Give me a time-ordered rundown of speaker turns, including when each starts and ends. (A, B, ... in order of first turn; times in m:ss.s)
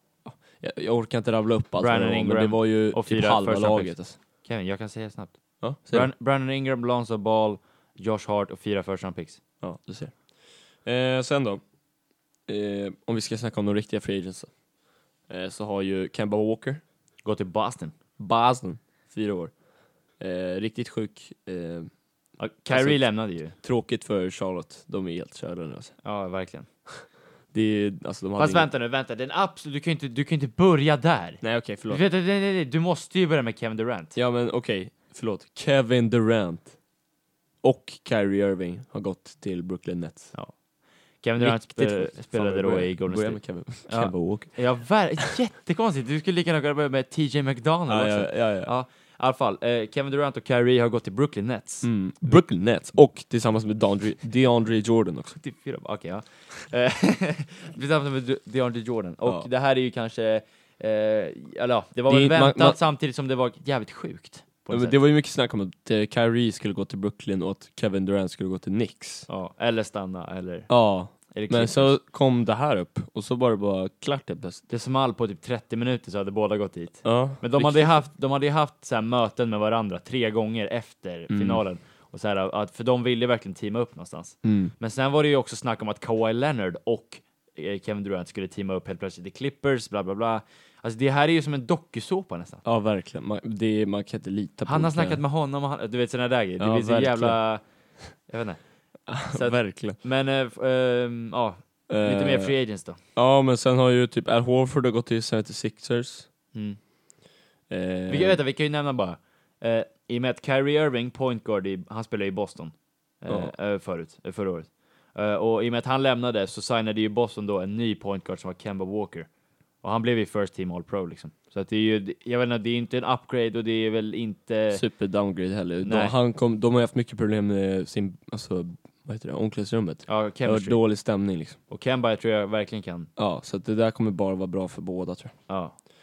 0:00.2-0:04.2 A
0:01.8-0:09.4 B
0:05.6-0:06.1 A
0:09.6-0:10.2 A
0:10.8-0:11.6 A
0:12.5-0:14.5 A
0:15.3-0:16.8 A
0:17.2-0:17.9 B
0:18.2-0:19.5 A
0:20.2-0:21.9 A
0:22.4-0:23.5 B
0:22.7-0:25.9 A
0:26.0-0:26.7 B
0:27.5-0:28.7 A
0:28.4-0:34.2 B
0:31.4-0:32.0 A
0:34.1-0:36.8 A
0:37.6-0:40.3 A
0:41.2-0:51.9 B
0:41.4-0:44.7 A
0:47.9-0:48.7 A
0:51.8-0:55.4 A
0:55.3-1:05.0 B
1:02.1-1:02.8 A
1:04.7-1:09.3 A
1:09.3-1:10.7 B
1:10.7-1:14.6 A
1:11.3-1:12.0 B
1:14.7-1:32.6 B
1:17.0-1:18.0 A
1:21.3-1:21.6 A
1:24.4-1:24.7 A
1:32.6-1:35.2 A
1:34.6-1:37.6 B
1:36.6-1:37.4 A
1:38.2-1:38.6 B
1:39.1-1:40.0 A
1:39.3-1:43.0 B
1:41.9-1:42.5 A
1:43.1-1:46.3 A
1:47.7-1:48.4 A
1:48.1-1:59.3 B
1:59.8-2:04.8 B
2:04.7-2:11.6 A
2:05.8-2:06.1 B
2:10.1-2:10.8 B
2:11.7-2:13.1 B
2:13.2-2:15.3 A
2:15.5-2:15.7 B